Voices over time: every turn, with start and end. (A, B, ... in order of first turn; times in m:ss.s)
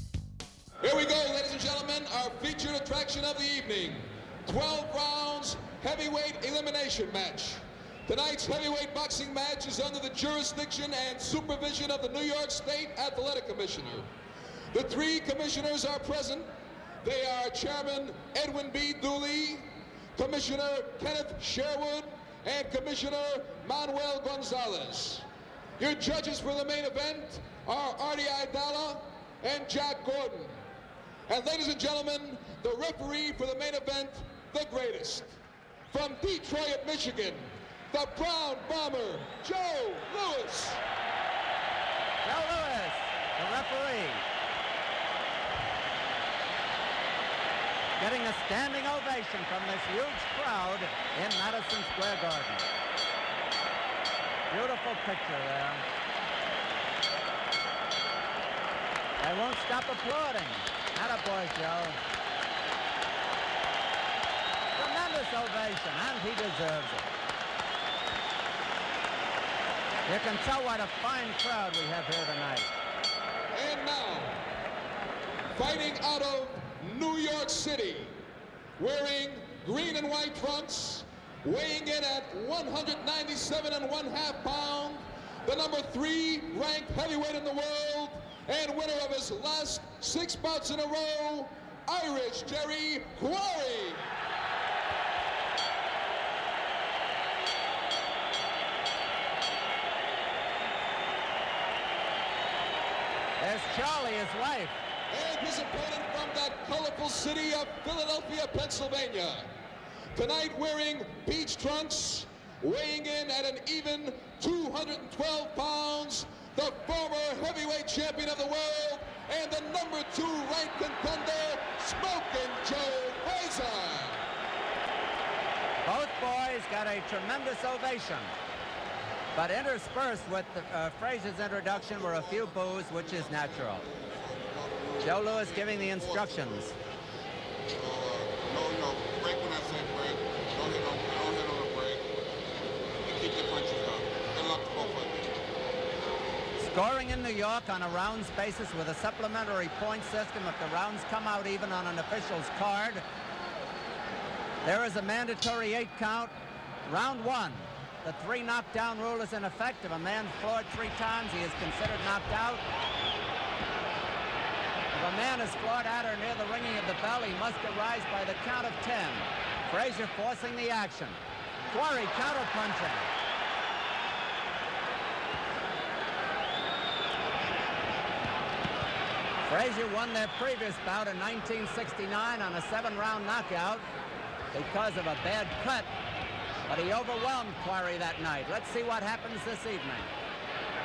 0:00.8-0:14.1 A
0:14.7-0:16.5 A
0:17.0-0:25.2 A
0:25.8-0:30.6 A
0:31.3-0:35.4 A
0:35.9-0:40.8 A
0:42.2-0:44.2 B
0:48.0-0:52.7 B
0:54.5-0:55.8 B
0:59.2-1:02.0 B
1:04.8-1:07.1 B
1:10.1-1:12.7 B
1:13.5-1:14.4 A
1:15.6-1:18.2 A
1:18.8-1:34.1 A
1:43.4-1:44.8 B
1:45.1-1:49.5 A
1:50.1-2:04.2 A
2:05.8-2:08.3 B
2:09.4-2:13.9 B
2:11.6-2:16.8 C
2:15.0-2:16.8 B
2:17.8-2:22.2 C
2:23.0-2:25.4 C
2:26.6-2:33.0 B
2:34.6-2:36.3 B
2:36.9-2:42.6 B
2:44.9-2:53.1 B
2:59.4-3:03.8 B
3:04.5-3:05.9 B
3:06.7-3:10.1 B